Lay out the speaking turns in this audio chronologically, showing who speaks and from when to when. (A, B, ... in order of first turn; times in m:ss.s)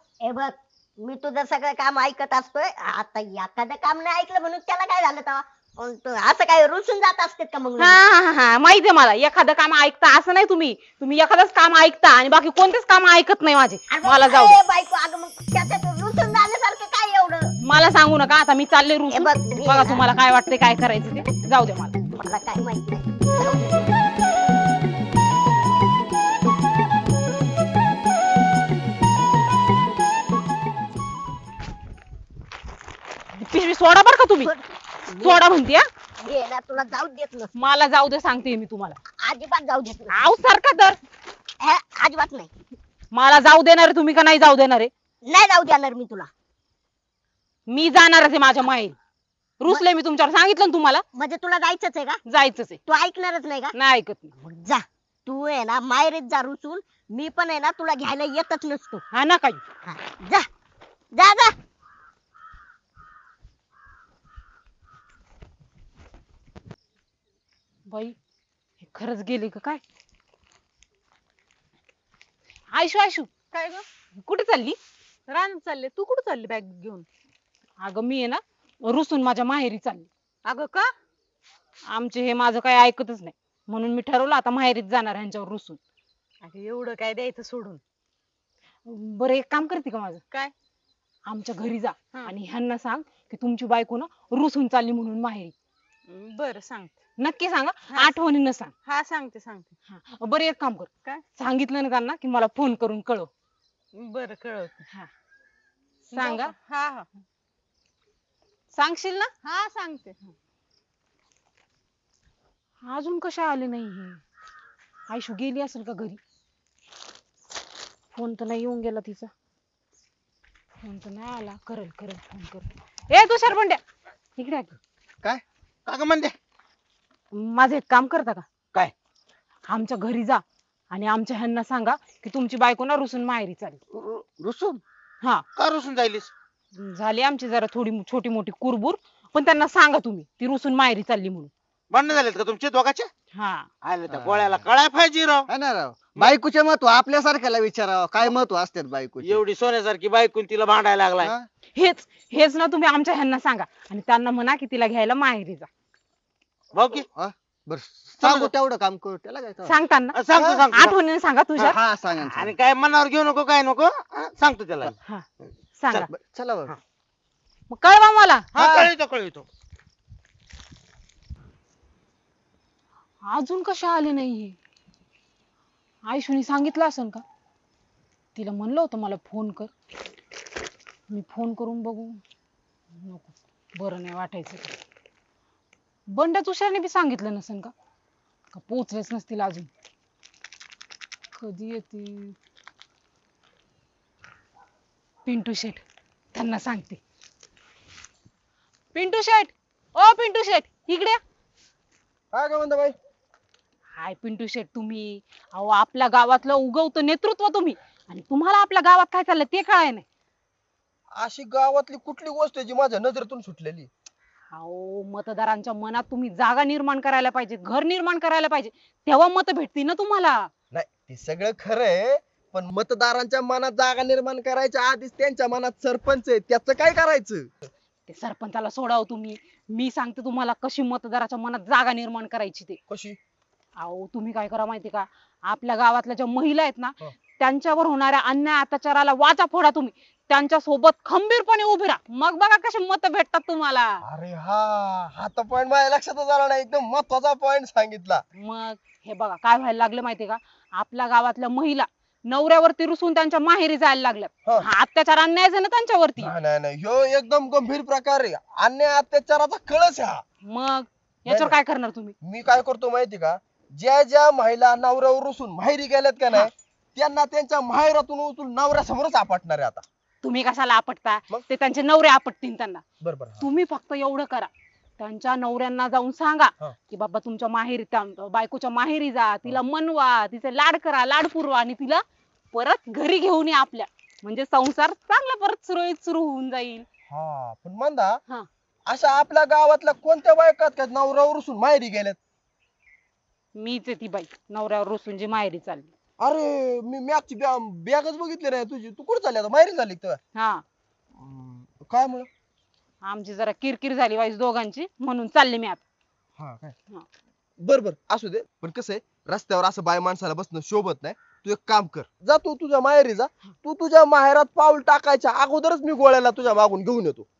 0:00.2-0:08.0 A
0:07.8-0:14.6 B
0:13.9-0:17.5 A
0:17.6-0:21.9 B
0:19.1-0:20.0 A
0:22.1-0:23.9 A
0:33.3-0:34.5 B
0:34.4-0:35.4 A
0:35.2-0:35.8 B
0:36.2-0:37.5 A
0:37.5-0:39.0 B
0:39.2-0:40.3 A
0:40.1-0:41.0 B
0:41.6-0:42.5 A
0:43.1-0:44.9 B
0:45.2-0:46.3 A
0:47.7-0:48.9 B
0:49.6-0:51.0 B
0:51.1-0:52.2 A
0:52.3-0:52.8 B
0:52.8-0:53.7 A
0:53.7-0:54.3 B
0:54.4-0:59.0 A
0:59.1-0:59.6 B
0:59.8-1:00.5 A
1:01.1-1:01.5 A
1:07.9-1:08.1 B
1:08.8-1:09.8 B
1:12.7-1:13.3 B
1:13.5-1:13.8 C
1:14.2-1:14.8 B
1:15.3-1:17.0 C
1:17.8-1:20.1 B
1:20.4-1:20.9 C
1:21.9-1:25.8 B
1:26.4-1:27.8 C
1:28.8-1:30.2 B
1:31.2-1:35.5 B
1:36.1-1:36.9 C
1:37.2-1:38.7 B
1:37.9-1:38.2 C
1:38.8-1:39.7 C
1:39.9-1:43.3 B
1:43.9-1:44.8 C
1:46.1-1:47.1 C
1:46.1-1:46.5 B
1:48.7-1:49.3 B
1:49.4-1:50.3 C
1:52.8-1:54.2 B
1:55.1-1:56.2 B
1:58.1-1:59.3 B
2:00.8-2:03.8 B
2:04.4-2:04.8 B
2:05.8-2:06.4 D
2:07.3-2:08.4 B
2:09.7-2:13.8 B
2:14.4-2:14.8 E
2:15.6-2:16.3 D
2:16.7-2:21.5 B
2:21.9-2:23.1 D
2:23.3-2:23.7 B
2:23.8-2:25.5 D
2:24.1-2:24.6 E
2:25.5-2:29.4 E
2:29.2-2:31.3 D
2:31.7-2:35.7 B
2:36.7-2:37.1 D
2:37.1-2:39.7 E
2:38.2-2:38.5 D
2:39.6-2:40.2 B
2:40.1-2:41.0 D
2:40.7-2:41.8 B
2:41.6-2:44.9 D
2:41.8-2:42.5 E
2:45.8-2:46.1 B
2:46.0-2:46.7 E
2:47.7-2:48.5 B
2:48.5-2:49.4 D
2:53.2-2:54.6 B
2:56.0-2:57.2 B
2:58.3-2:59.7 B
3:01.1-3:02.2 B
3:03.0-3:04.7 B
3:06.1-3:07.7 B
3:08.5-3:09.7 B
3:11.4-3:12.4 B
3:15.2-3:15.8 B
3:16.3-3:17.0 B
3:18.9-3:21.2 B
3:22.3-3:23.0 F
3:24.0-3:30.0 B
3:31.1-3:33.9 F
3:34.5-3:40.5 B
3:40.7-3:47.5 F
3:48.1-3:52.8 B
3:52.9-3:53.2 F
3:53.8-4:04.0 B
4:04.0-4:08.2 F
4:08.3-4:16.3 B
4:16.2-4:20.2 F
4:20.4-4:22.1 B
4:21.3-4:21.6 F
4:22.2-4:29.8 F
4:30.2-4:32.8 B
4:33.0-4:33.4 F
4:33.4-4:46.8 B
4:47.1-4:48.2 F
4:48.8-4:52.2 F
4:53.5-4:55.9 B
4:56.2-5:00.2 F
5:00.3-5:00.6 B
5:01.2-5:02.3 F
5:03.0-5:05.8 B
5:06.4-5:06.7 F
5:07.6-5:17.2 F